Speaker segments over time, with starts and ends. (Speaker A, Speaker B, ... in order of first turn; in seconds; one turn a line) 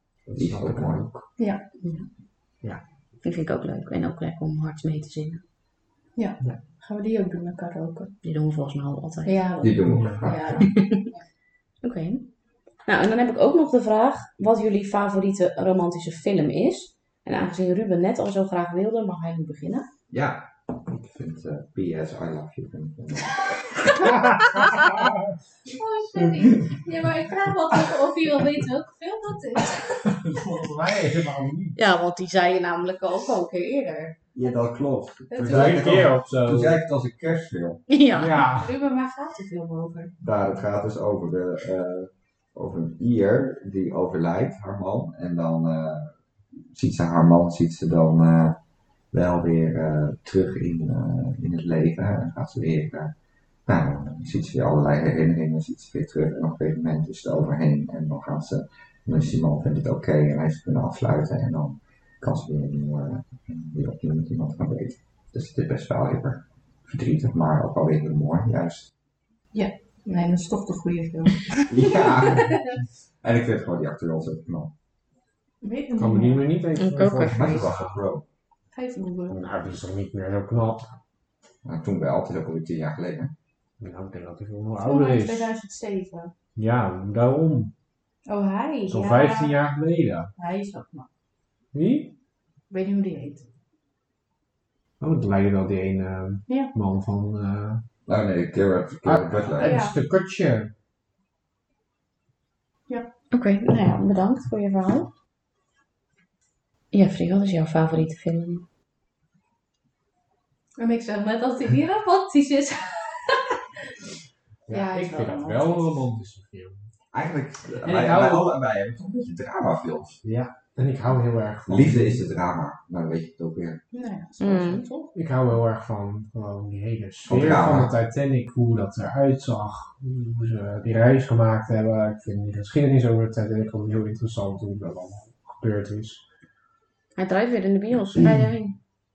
Speaker A: 0.2-1.2
Speaker B: 0.3-1.1
Speaker C: 1.4-1.6
Speaker D: 1.8-2.1
Speaker D: 3.2-5.4
Speaker C: 6.2-8.1
Speaker D: 8.2-9.4
Speaker C: 9.2-11.2
Speaker B: 9.6-10.7
Speaker A: 9.9-10.6
Speaker D: 10.6-11.1
Speaker D: 11.8-12.3
Speaker D: 12.8-19.9
Speaker B: 20.1-23.6
Speaker A: 24.0-25.3
Speaker C: 25.6-30.1
Speaker A: 30.0-31.8
Speaker D: 31.8-34.1
Speaker B: 34.3-37.8
Speaker C: 35.3-36.0
Speaker A: 35.4-36.8
Speaker D: 37.9-38.4
Speaker A: 38.1-38.7
Speaker C: 38.5-40.1
Speaker B: 40.2-46.1
Speaker B: 46.7-48.6
Speaker B: 49.1-53.1
Speaker B: 53.7-68.9
Speaker C: 69.5-72.7
Speaker B: 71.7-74.7
Speaker C: 75.6-76.6
Speaker A: 76.0-78.0
Speaker D: 76.8-77.7
Speaker B: 77.3-78.2
Speaker C: 78.7-79.4
Speaker A: 79.3-80.9
Speaker B: 81.6-83.3
Speaker A: 83.8-85.5
Speaker C: 84.8-86.3
Speaker A: 86.5-87.7
Speaker C: 88.3-89.5
Speaker A: 88.9-90.3
Speaker C: 90.4-91.1
Speaker A: 91.7-92.1
Speaker C: 92.7-93.4
Speaker A: 95.0-97.8
Speaker B: 98.0-99.8
Speaker A: 99.0-100.7
Speaker C: 99.6-100.0
Speaker D: 103.3-105.1
Speaker D: 106.9-108.7
Speaker C: 110.8-113.6
Speaker A: 114.7-116.8
Speaker C: 114.7-116.0
Speaker B: 117.1-120.2
Speaker A: 117.8-118.5
Speaker A: 120.2-122.2
Speaker B: 121.7-123.8
Speaker C: 123.9-125.1
Speaker D: 124.4-124.8
Speaker A: 125.1-136.2
Speaker B: 127.2-127.9
Speaker D: 137.2-138.8